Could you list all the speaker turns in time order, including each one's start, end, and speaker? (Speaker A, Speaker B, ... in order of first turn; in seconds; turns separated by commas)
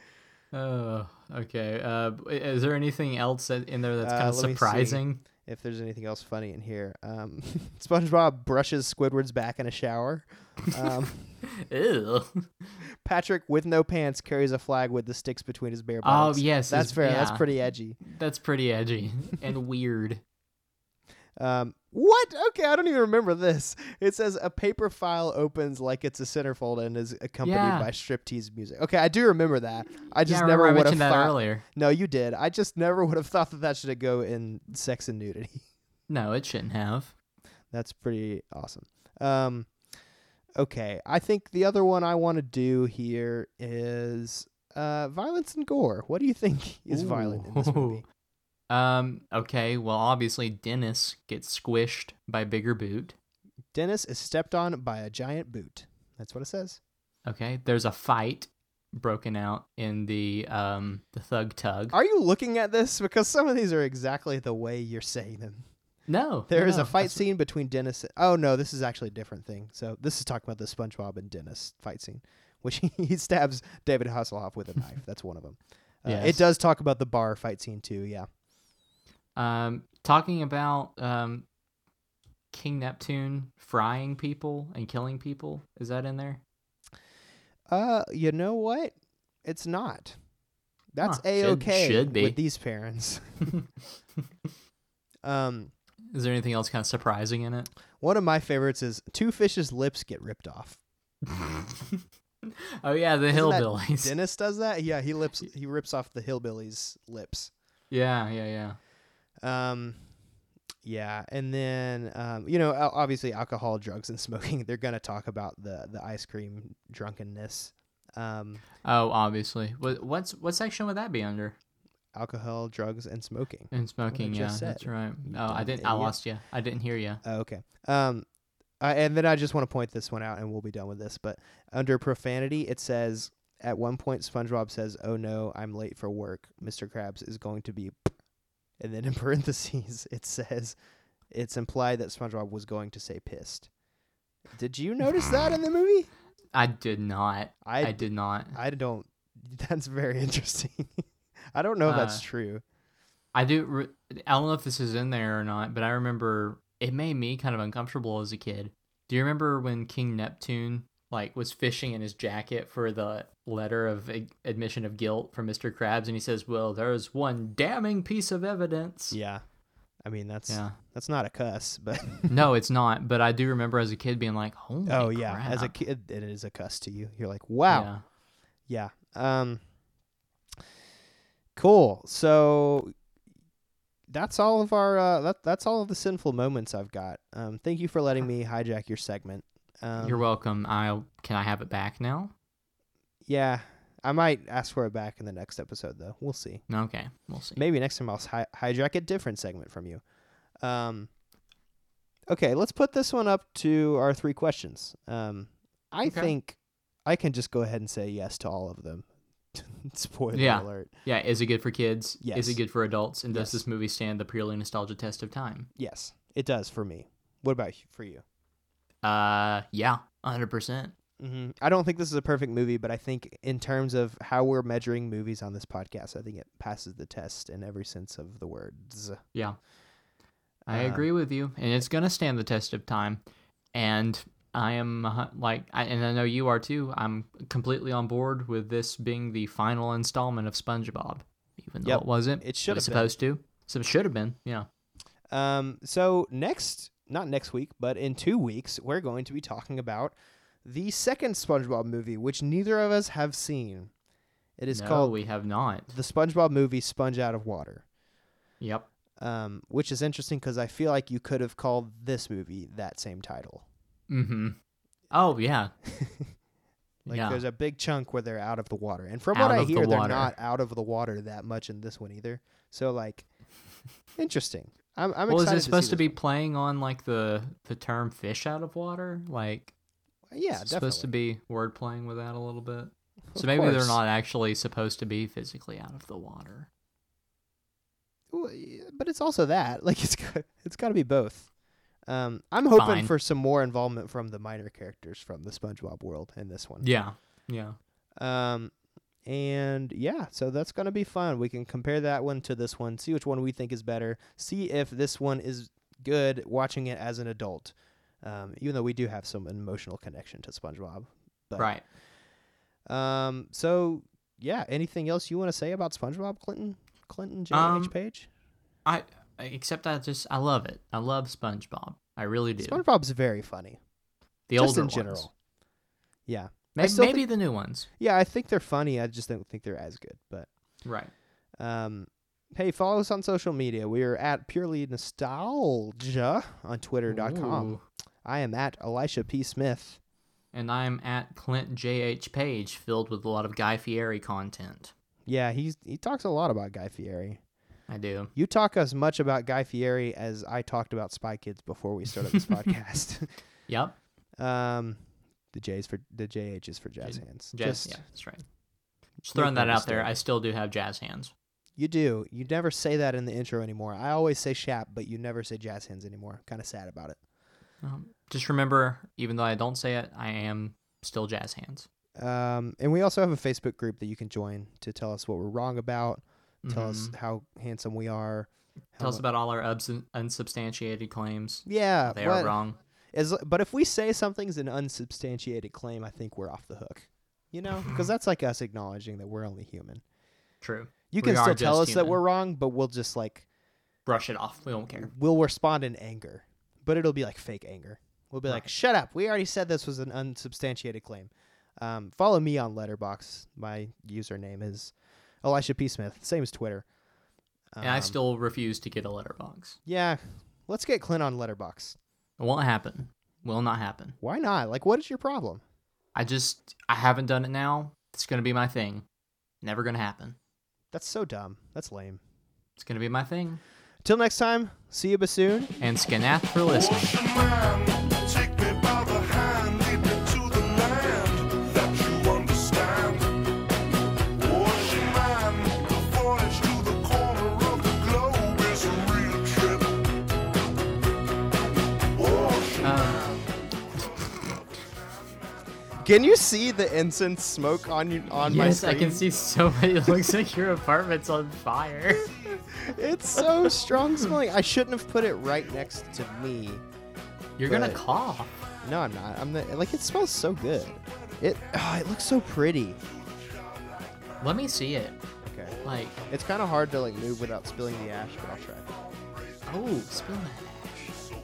Speaker A: 0.5-5.2, Speaker B: 4.0-11.3, Speaker A: 11.6-12.8, Speaker B: 13.0-18.0, Speaker A: 16.0-17.4, Speaker A: 18.0-20.2, Speaker B: 21.4-35.6, Speaker A: 27.4-27.9, Speaker A: 30.2-31.6, Speaker A: 36.1-37.1, Speaker B: 37.7-39.7, Speaker B: 40.6-48.0, Speaker A: 46.9-48.0, Speaker A: 48.7-53.1, Speaker B: 53.7-56.8, Speaker A: 57.2-62.0, Speaker B: 61.9-65.7, Speaker A: 66.1-67.2, Speaker B: 66.5-78.3, Speaker A: 76.0-76.4, Speaker A: 79.3-81.5, Speaker A: 82.5-86.4, Speaker B: 87.7-90.2, Speaker B: 90.9-93.5, Speaker A: 91.0-92.4, Speaker B: 95.2-95.7, Speaker A: 96.1-97.7, Speaker B: 98.0-100.8, Speaker A: 101.3-104.1, Speaker B: 103.3-107.5, Speaker A: 107.9-108.8, Speaker B: 109.4-110.0, Speaker B: 110.8-118.6, Speaker A: 118.8-121.5, Speaker B: 122.1-126.2, Speaker A: 123.7-127.2, Speaker B: 127.2-128.2, Speaker B: 128.8-138.1, Speaker B: 138.8-140.8, Speaker B: 141.3-143.7, Speaker B: 144.5-146.1, Speaker A: 146.5-148.6, Speaker B: 147.6-152.6, Speaker A: 151.8-152.2, Speaker A: 153.3-169.2, Speaker B: 169.1-169.4, Speaker B: 170.0-172.4, Speaker A: 170.5-170.8, Speaker A: 172.3-175.7, Speaker B: 174.8-177.9, Speaker A: 177.7-178.0, Speaker B: 178.7-179.6, Speaker B: 181.6-182.9, Speaker B: 184.1-190.2, Speaker A: 190.0-192.3, Speaker B: 193.2-196.6, Speaker A: 196.7-197.6, Speaker B: 197.6-200.0, Speaker B: 200.6-201.1, Speaker B: 202.3-210.9, Speaker A: 206.0-206.3, Speaker A: 210.3-215.7, Speaker B: 212.2-212.6, Speaker B: 213.3-213.6, Speaker B: 215.8-218.2, Speaker A: 219.0-220.9, Speaker B: 221.2-229.2, Speaker A: 230.7-233.2, Speaker B: 230.7-231.1, Speaker A: 233.7-244.7, Speaker B: 241.8-243.1, Speaker B: 245.3-253.9, Speaker B: 254.6-255.2, Speaker A: 254.7-255.9, Speaker B: 255.9-257.8, Speaker A: 258.6-258.9, Speaker B: 259.2-263.6, Speaker A: 264.1-264.6, Speaker A: 265.1-265.7, Speaker B: 265.8-266.3, Speaker B: 267.0-273.2, Speaker A: 267.1-267.4, Speaker A: 269.3-270.3, Speaker B: 274.2-276.1, Speaker A: 275.3-279.7, Speaker B: 280.3-281.1, Speaker A: 280.5-286.7, Speaker B: 283.3-284.0, Speaker B: 288.3-291.5, Speaker B: 292.1-296.9, Speaker A: 292.7-293.1, Speaker A: 296.8-297.8, Speaker B: 298.2-298.7, Speaker B: 299.2-311.7, Speaker A: 311.6-311.8, Speaker B: 312.9-318.3, Speaker A: 317.5-317.9, Speaker A: 318.9-322.8, Speaker B: 322.6-323.8, Speaker A: 324.5-325.3, Speaker B: 324.6-325.3, Speaker B: 326.2-327.3, Speaker A: 326.8-327.9, Speaker B: 328.0-330.5, Speaker A: 330.8-331.1, Speaker B: 331.6-340.0, Speaker A: 337.1-337.8, Speaker A: 340.5-344.9, Speaker B: 345.2-347.4, Speaker A: 347.9-348.3, Speaker B: 348.3-353.3, Speaker A: 353.7-353.9, Speaker B: 354.4-355.0, Speaker B: 355.5-358.0, Speaker A: 357.0-358.4, Speaker B: 359.2-360.2, Speaker A: 359.2-361.3, Speaker B: 361.8-367.2, Speaker A: 367.8-371.9, Speaker B: 372.2-379.2, Speaker A: 376.6-377.1, Speaker A: 379.0-382.8, Speaker B: 381.6-382.6, Speaker B: 383.1-390.0, Speaker A: 390.6-392.2, Speaker B: 391.1-393.4, Speaker A: 394.1-395.1, Speaker B: 394.9-406.8, Speaker B: 407.7-408.2, Speaker A: 407.8-409.8, Speaker B: 409.9-412.0, Speaker A: 412.4-414.1, Speaker B: 414.2-415.6, Speaker A: 416.1-419.1, Speaker A: 419.6-420.4, Speaker B: 420.9-422.2, Speaker A: 422.8-423.6, Speaker B: 424.0-425.7, Speaker A: 425.8-427.1, Speaker C: 426.7-433.4, Speaker C: 434.4-440.1, Speaker C: 442.1-443.4, Speaker A: 442.8-443.2, Speaker B: 446.0-449.2, Speaker A: 448.4-452.3, Speaker B: 452.6-456.8, Speaker A: 457.6-458.6, Speaker B: 457.6-458.0, Speaker B: 458.8-463.0, Speaker A: 464.4-465.2, Speaker B: 465.4-465.8, Speaker A: 465.8-466.2, Speaker B: 466.3-468.9, Speaker A: 469.6-471.1